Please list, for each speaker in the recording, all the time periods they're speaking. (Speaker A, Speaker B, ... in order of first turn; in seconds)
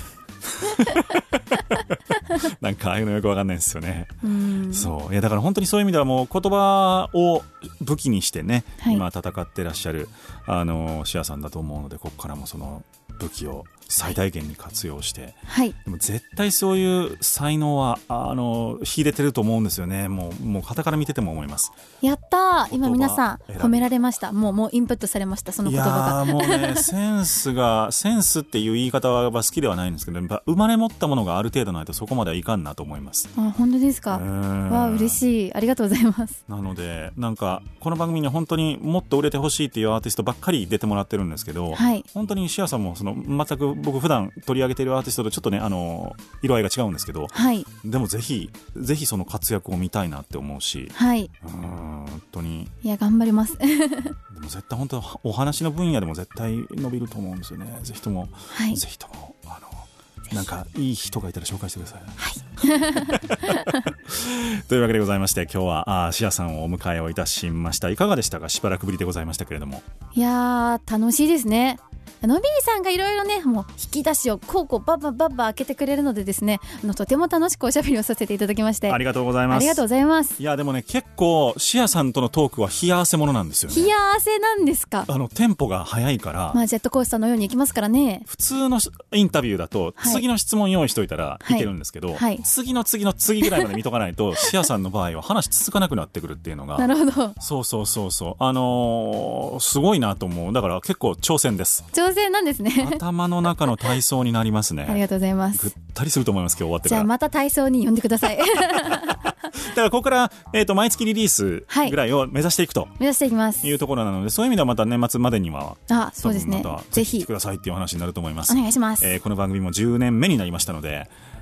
Speaker A: 0.4-4.2, 4.7-21.7, 22.7-23.9, 25.6-33.3, 34.1-35.2, 36.5-52.7, 54.3-62.2, 62.7-69.8, 78.9-79.8, 80.4-83.9, 85.1-86.6, 88.3-101.9, 102.8-105.0, 105.5-107.1, 108.7-113.0, 113.6-121.1
Speaker B: 4.2-4.9, 15.5-15.8, 22.0-26.9, 33.4-36.4, 41.7-42.0, 47.3-47.7, 50.9-51.3, 52.8-54.2, 58.5-58.8, 62.2-63.9, 70.2-80.4, 83.7-85.1, 86.5-88.3, 90.0-90.2, 91.4-92.4, 96.8-97.4, 101.9-103.0, 104.9-105.7, 106.8-109.3, 111.7-112.0, 113.0-113.7, 115.9-117.3, 118.5-119.1